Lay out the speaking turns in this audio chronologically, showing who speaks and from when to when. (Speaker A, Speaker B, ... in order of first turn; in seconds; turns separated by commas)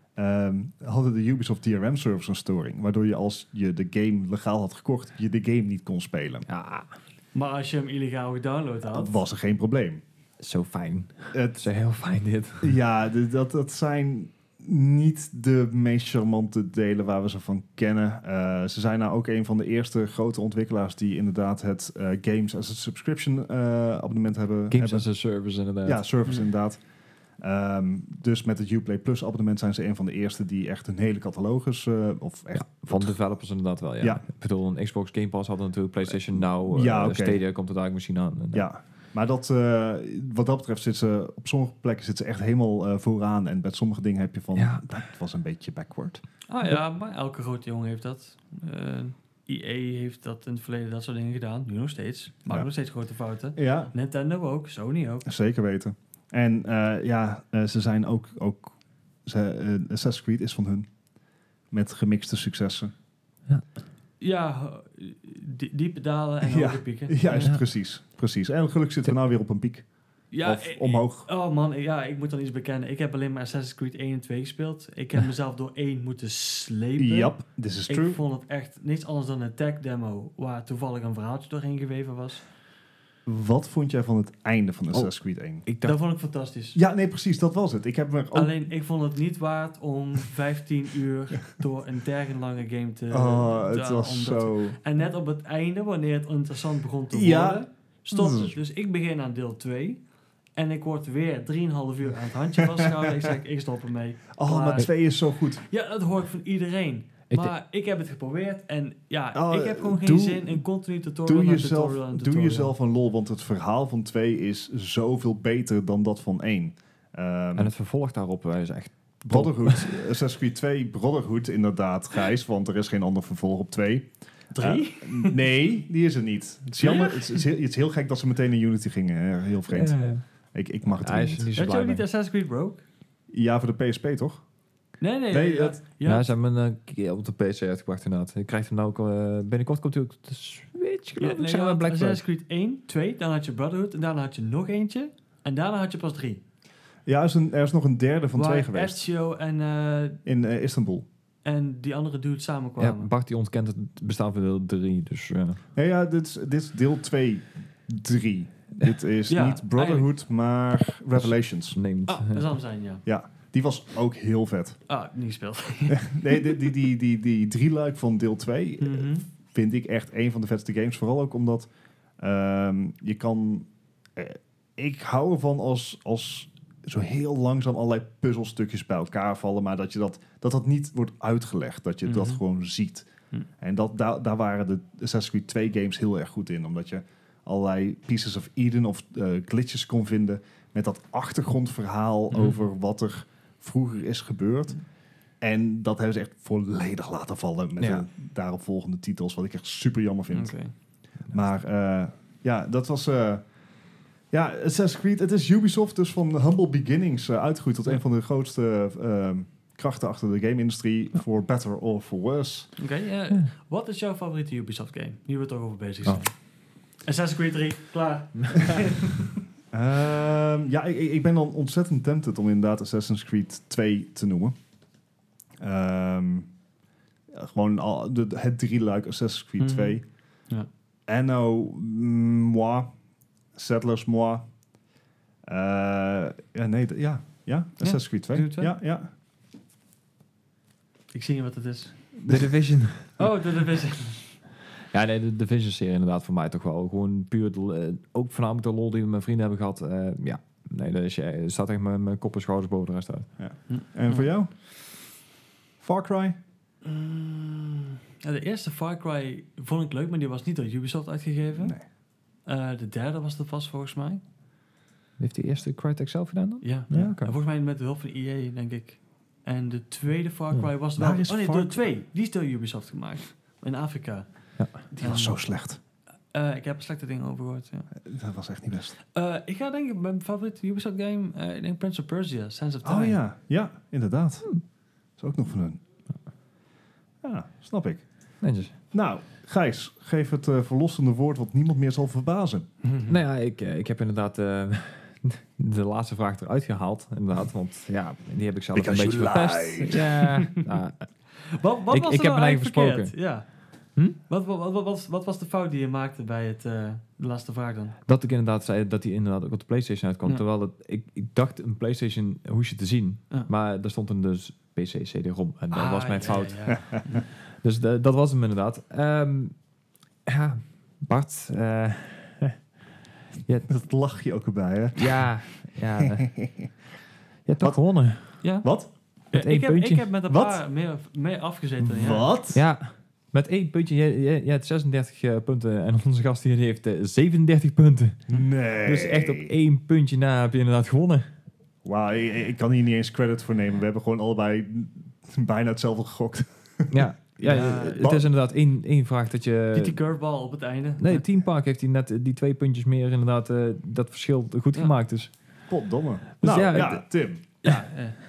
Speaker A: 0.1-6.5, Speaker B: 6.5-6.9, Speaker C: 7.3-9.1, Speaker A: 8.9-10.0, Speaker B: 10.4-12.8, Speaker A: 11.3-11.6, Speaker A: 12.6-25.1, Speaker B: 24.7-26.0, Speaker A: 25.8-26.8, Speaker A: 27.4-33.2, Speaker B: 32.5-38.6, Speaker A: 36.1-37.4, Speaker A: 38.5-46.2, Speaker B: 44.5-44.9, Speaker C: 46.5-55.3, Speaker A: 53.5-53.9, Speaker A: 55.2-60.9, Speaker A: 61.7-62.9, Speaker C: 64.2-67.5, Speaker A: 66.4-69.9, Speaker B: 67.3-67.6, Speaker C: 70.3-77.3, Speaker A: 70.4-71.3, Speaker A: 77.0-78.2, Speaker C: 77.9-82.4, Speaker A: 83.2-85.7, Speaker B: 85.7-85.9, Speaker C: 85.8-86.8, Speaker A: 86.7-88.5, Speaker C: 88.3-100.0, Speaker A: 93.1-94.8, Speaker A: 97.1-98.6, Speaker C: 100.5-104.9, Speaker A: 102.6-103.2, Speaker A: 104.3-105.6, Speaker C: 105.6-112.7, Speaker A: 109.3-110.6, Speaker A: 111.2-117.7, Speaker B: 117.5-120.1, Speaker A: 119.2-131.5, Speaker C: 124.5-125.4, Speaker C: 126.8-127.4, Speaker B: 129.7-130.2, Speaker B: 130.9-132.0, Speaker C: 131.6-132.8, Speaker A: 133.3-134.4, Speaker C: 135.0-136.3, Speaker A: 135.3-135.8, Speaker B: 136.0-142.2, Speaker C: 141.2-146.4, Speaker A: 147.1-149.0, Speaker C: 148.3-150.2, Speaker A: 150.2-151.1, Speaker C: 151.4-153.1, Speaker B: 152.8-155.6, Speaker A: 155.7-161.8, Speaker C: 159.3-160.1, Speaker B: 161.1-162.5, Speaker C: 162.1-163.0, Speaker A: 163.1-164.8, Speaker C: 164.9-166.7, Speaker A: 165.9-194.8, Speaker C: 168.8-169.2, Speaker C: 182.1-182.4, Speaker A: 195.4-200.6, Speaker B: 197.8-198.0, Speaker C: 200.3-200.7, Speaker A: 201.3-203.4, Speaker A: 204.3-212.7, Speaker C: 212.8-216.3, Speaker C: 217.0-219.2, Speaker A: 219.7-224.6, Speaker A: 225.6-226.5, Speaker A: 227.3-230.0, Speaker C: 229.6-230.0, Speaker A: 231.1-232.9, Speaker A: 233.5-234.5, Speaker A: 235.5-239.1, Speaker C: 237.8-238.7, Speaker C: 241.1-241.9, Speaker A: 242.2-242.5, Speaker B: 242.3-243.1, Speaker C: 243.2-244.2, Speaker B: 244.9-253.3, Speaker A: 253.4-254.6, Speaker C: 253.7-254.3, Speaker A: 255.8-256.4, Speaker C: 256.8-261.8, Speaker A: 261.6-261.8, Speaker C: 262.4-264.2, Speaker B: 265.2-267.3, Speaker C: 266.6-274.2, Speaker A: 271.0-271.8, Speaker C: 274.9-275.4, Speaker A: 275.0-275.8, Speaker C: 276.3-277.9, Speaker A: 278.0-279.0, Speaker C: 279.1-283.2, Speaker A: 282.8-284.5, Speaker A: 285.2-285.8, Speaker A: 287.2-288.1, Speaker B: 288.4-288.7, Speaker A: 288.9-292.7, Speaker C: 292.8-293.1, Speaker B: 293.1-301.1, Speaker A: 298.7-300.2, Speaker C: 301.5-303.4, Speaker B: 301.9-303.1, Speaker C: 304.3-307.9, Speaker B: 308.1-319.5, Speaker C: 315.7-317.2, Speaker B: 320.2-322.6, Speaker A: 323.7-325.3, Speaker B: 324.9-326.4, Speaker A: 326.0-326.7, Speaker B: 327.4-328.5, Speaker C: 328.4-328.7, Speaker A: 328.6-328.9, Speaker C: 329.3-332.3, Speaker B: 329.3-330.1, Speaker A: 330.3-330.6, Speaker A: 331.8-332.6, Speaker B: 332.5-341.3, Speaker A: 338.3-339.5, Speaker A: 341.8-348.3, Speaker B: 346.9-349.9, Speaker C: 347.4-348.1, Speaker C: 349.7-351.2, Speaker B: 351.0-355.3, Speaker A: 355.7-357.4, Speaker B: 356.4-357.0, Speaker C: 357.6-358.2